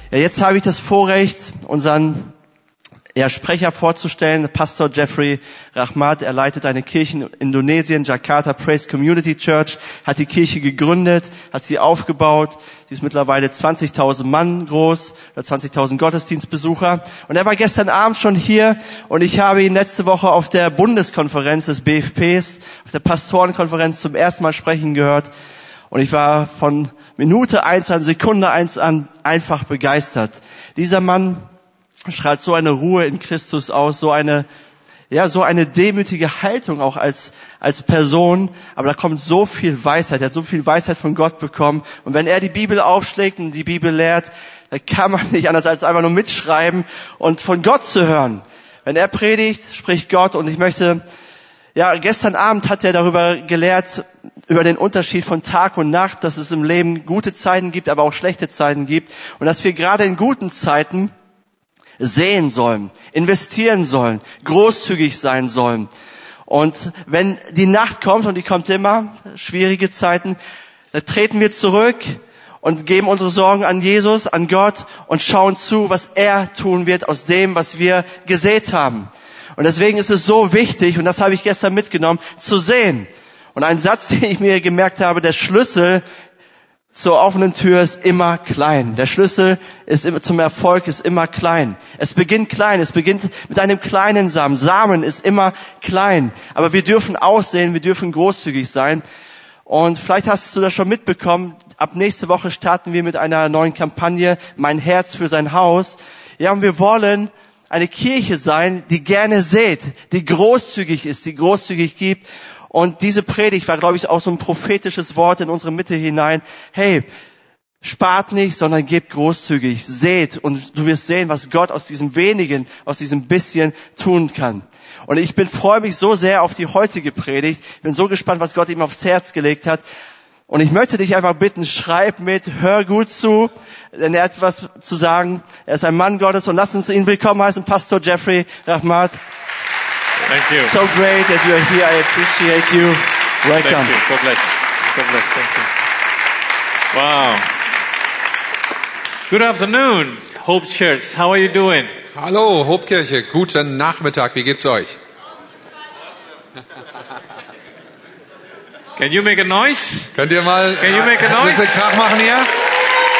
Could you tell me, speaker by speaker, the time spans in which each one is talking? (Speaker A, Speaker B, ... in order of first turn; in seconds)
Speaker A: 0.1-2.3, 3.1-25.3, 25.9-31.5, 32.0-34.5, 35.1-51.0, 51.7-61.1, 62.0-65.9, 66.5-70.4, 70.9-86.0, 86.9-99.0, 99.7-117.1, 117.8-129.8, 130.5-139.2, 140.6-144.0
Speaker B: 140.2-140.8, 143.6-145.7, 146.9-147.5, 149.3-151.9, 159.0-160.2, 160.8-161.8
Speaker C: 152.1-155.0, 160.2-162.5